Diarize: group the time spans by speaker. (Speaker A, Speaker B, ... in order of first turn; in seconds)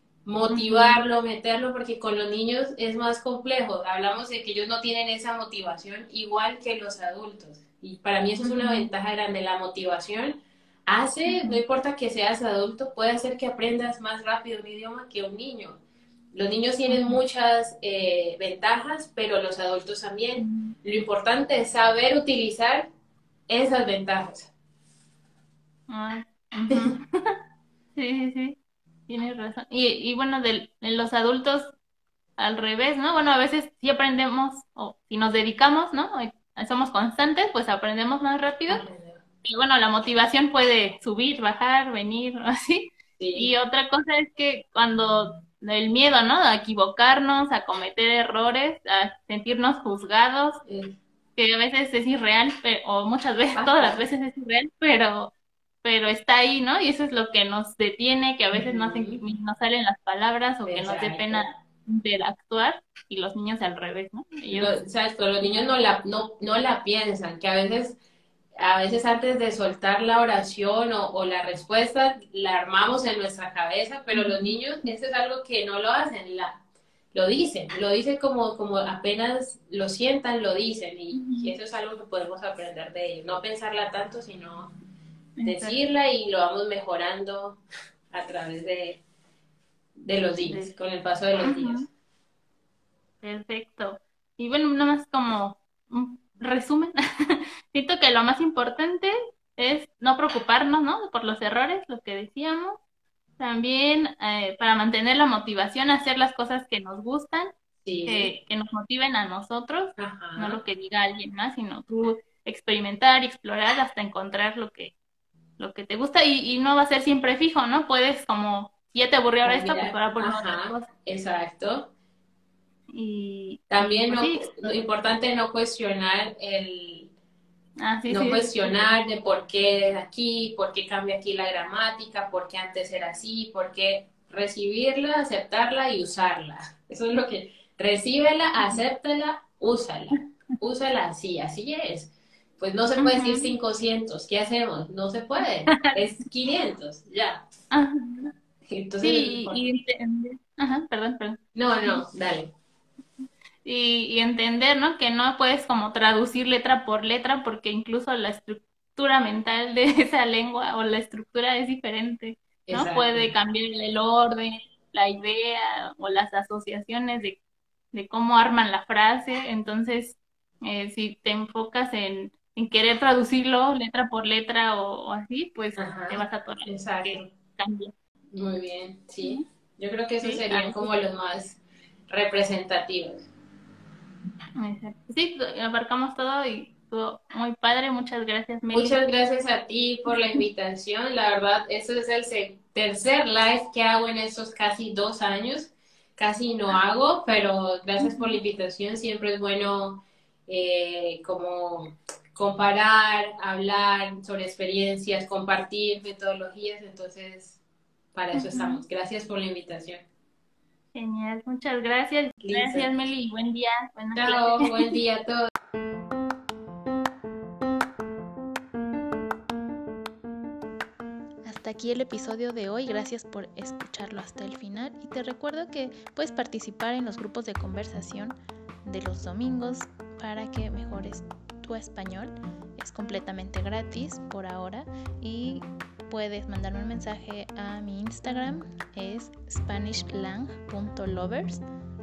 Speaker A: 0.2-15.8, 16.3-22.9, 23.5-24.5, 38.7-39.2, 43.2-43.5, 50.6-51.0, 53.5-54.0, 58.5-59.2, 60.6-61.5, 64.5-68.0, 68.6-76.6, 77.1-84.7, 85.4-89.0, 90.0-91.9, 107.8-108.3, 110.0-110.6, 119.4-121.9, 123.7-127.1, 128.1-147.4, 148.7-149.6, 151.5-152.5, 162.7-163.3, 175.8-177.3, 178.3-183.3, 188.7-207.6, 208.1-210.0, 212.4-212.9, 214.2-215.5
Speaker B: 0.5-1.0, 8.4-8.9, 11.3-11.6, 16.9-17.2, 20.4-20.7, 25.9-27.1, 27.9-31.7, 32.4-38.8, 39.4-50.6, 51.4-64.7, 74.1-74.5, 81.1-81.5, 85.4-85.8, 91.4-91.9, 93.2-102.8, 103.4-107.5, 108.0-114.9, 115.6-120.9, 122.9-124.5, 127.8-128.9, 143.0-143.5, 147.7-148.3, 149.0-152.0, 153.6-167.4, 167.9-177.9, 180.2-180.9, 184.6-189.0, 198.0-198.3, 208.3-208.8, 210.9-214.9
Speaker C: 221.4-241.6